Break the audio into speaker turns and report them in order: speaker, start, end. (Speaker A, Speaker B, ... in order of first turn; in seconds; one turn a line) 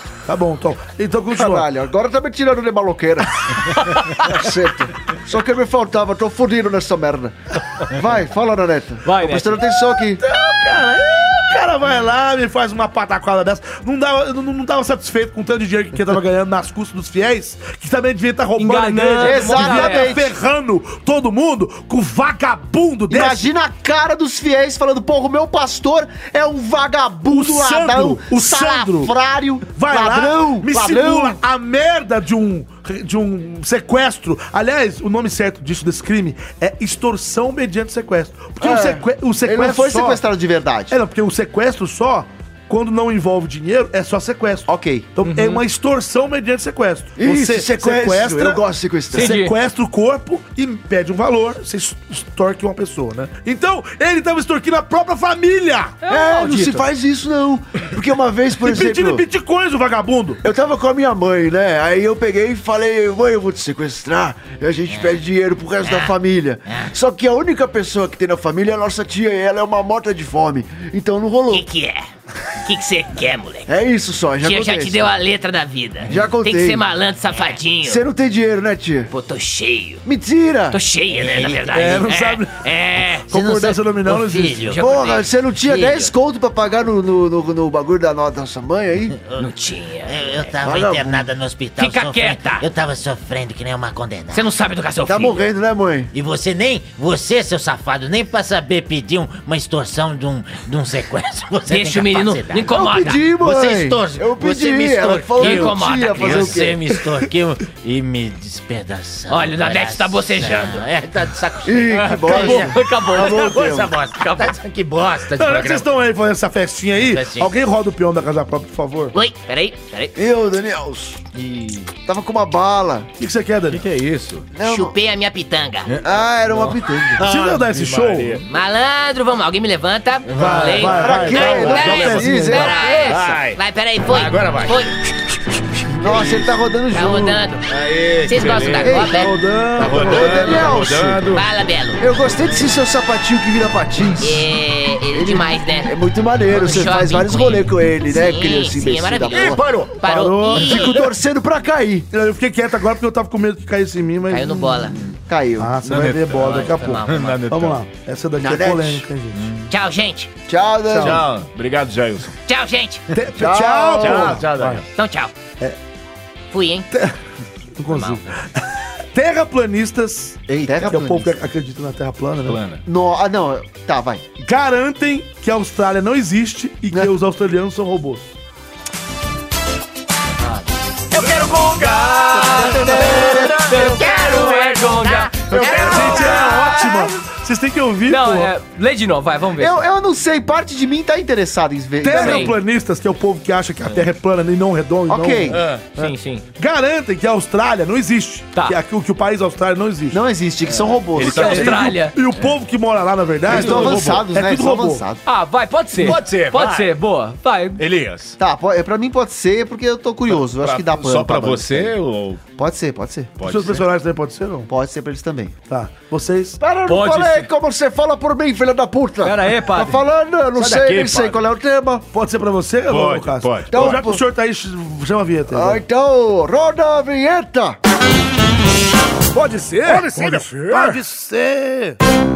Speaker A: 0.2-1.7
Speaker B: 1.3-10.2
Speaker C: 9.0-9.6
Speaker A: 10.2-23.5
Speaker C: 18.6-20.2
Speaker B: 19.2-20.3
Speaker B: 23.1-31.4
Speaker A: 27.2-29.1
Speaker A: 29.7-40.2
Speaker B: 38.6-41.0
Speaker A: 40.9-56.8
Speaker B: 44.7-45.1
Speaker C: 45.2-45.6
Speaker B: 47.2-49.4
Speaker C: 49.1-49.5
Speaker C: 56.0-56.6
Speaker B: 56.0-59.2
Speaker A: 58.6-60.4
Speaker B: 60.4-71.7
Speaker D: 65.8-66.1
Speaker E: 71.5-72.0
Speaker E: 72.6-73.7
Speaker B: 73.7-75.0
Speaker E: 74.4-78.0
Speaker B: 76.0-76.8
Speaker B: 77.8-79.1
Speaker E: 79.1-80.0
Speaker B: 80.0-80.8
Speaker E: 80.7-83.7
Speaker D: 81.1-81.6
Speaker A: 81.7-84.8
Speaker D: 83.9-84.9
Speaker E: 84.4-86.1
Speaker B: 84.7-89.2
Speaker E: 89.3-90.5
Speaker D: 90.0-94.4
Speaker B: 90.6-91.3
Speaker E: 91.8-92.7
Speaker E: 94.3-95.4
Speaker B: 95.0-96.1
Speaker D: 96.1-115.8
Speaker E: 101.7-103.2
Speaker B: 102.7-107.0
Speaker E: 105.3-106.7
Speaker E: 109.3-110.9
Speaker B: 111.6-113.9
Speaker C: 111.9-113.7
Speaker A: 115.3-119.1
Speaker D: 117.0-117.5
Speaker E: 119.1-120.2
Speaker B: 120.1-123.1
Speaker F: 121.3-121.8
Speaker A: 123.2-123.8
Speaker F: 123.7-124.5
Speaker B: 124.5-125.0
Speaker E: 124.6-125.9
Speaker F: 125.8-128.4
Speaker B: 126.0-127.2
Speaker A: 127.2-128.4
Speaker E: 128.5-134.9
Speaker F: 130.2-134.8
Speaker A: 130.4-132.7
Speaker B: 130.8-133.4
Speaker B: 136.0-137.4
Speaker F: 136.0-136.5
Speaker E: 136.9-137.6
Speaker F: 137.7-139.1
Speaker E: 138.2-139.3
Speaker B: 138.8-139.2
Speaker A: 139.1-140.7
Speaker F: 139.8-141.4
Speaker B: 139.8-141.2
Speaker E: 141.2-142.0
Speaker B: 142.0-144.5
Speaker E: 144.2-145.9
Speaker B: 145.1-149.6
Speaker E: 146.5-150.9
Speaker F: 149.3-150.0
Speaker A: 150.0-151.1
Speaker B: 150.5-152.1
Speaker A: 152.1-154.8
Speaker E: 154.3-155.0
Speaker B: 155.3-155.9
Speaker A: 155.6-159.5
Speaker F: 155.8-157.8
Speaker E: 156.3-157.4
Speaker B: 158.4-159.0
Speaker F: 159.3-159.7
Speaker E: 159.7-160.3
Speaker B: 160.5-161.2
Speaker A: 160.8-161.2
Speaker F: 161.0-162.4
Speaker E: 162.5-163.0
Speaker A: 163.1-164.8
Speaker B: 163.3-164.4
Speaker F: 164.0-164.8
Speaker E: 164.9-165.3
Speaker E: 166.5-166.9
Speaker A: 167.8-172.6
Speaker E: 167.9-168.2
Speaker B: 170.5-171.3
Speaker F: 172.4-172.8
Speaker B: 172.8-174.2
Speaker A: 174.4-178.3
Speaker C: 181.1-186.9
Speaker F: 181.2-182.1
Speaker E: 181.7-182.5
Speaker B: 182.4-184.2
Speaker D: 183.4-184.9
Speaker E: 183.8-186.8
Speaker B: 185.5-186.6
Speaker F: 185.5-186.3
Speaker A: 185.7-188.5
Speaker C: 188.1-189.8
Speaker B: 189.6-192.5
Speaker A: 192.0-200.2
Speaker C: 192.1-192.5
Speaker B: 195.1-195.6
Speaker F: 195.5-195.9
Speaker C: 195.9-196.4
Speaker B: 200.1-201.8
Speaker F: 200.6-202.5
Speaker C: 201.2-202.1
Speaker A: 201.2-205.0
Speaker F: 203.5-204.3
Speaker B: 203.5-205.2
Speaker C: 205.2-207.8
Speaker F: 205.9-206.9
Speaker F: 207.8-208.4
Speaker B: 208.4-211.9
Speaker F: 210.3-212.4
Speaker B: 212.6-213.3
Speaker F: 213.4-213.8
Speaker A: 213.4-214.7
Speaker B: 214.7-215.5
Speaker A: 215.7-216.6
Speaker B: 216.6-222.1
Speaker C: 216.9-217.5
Speaker C: 219.2-220.0
Speaker F: 220.5-221.4
Speaker A: 222.1-225.8
Speaker F: 222.9-224.0
Speaker B: 223.7-224.2
Speaker B: 225.5-227.8
Speaker A: 229.3-232.0
Speaker F: 229.7-231.0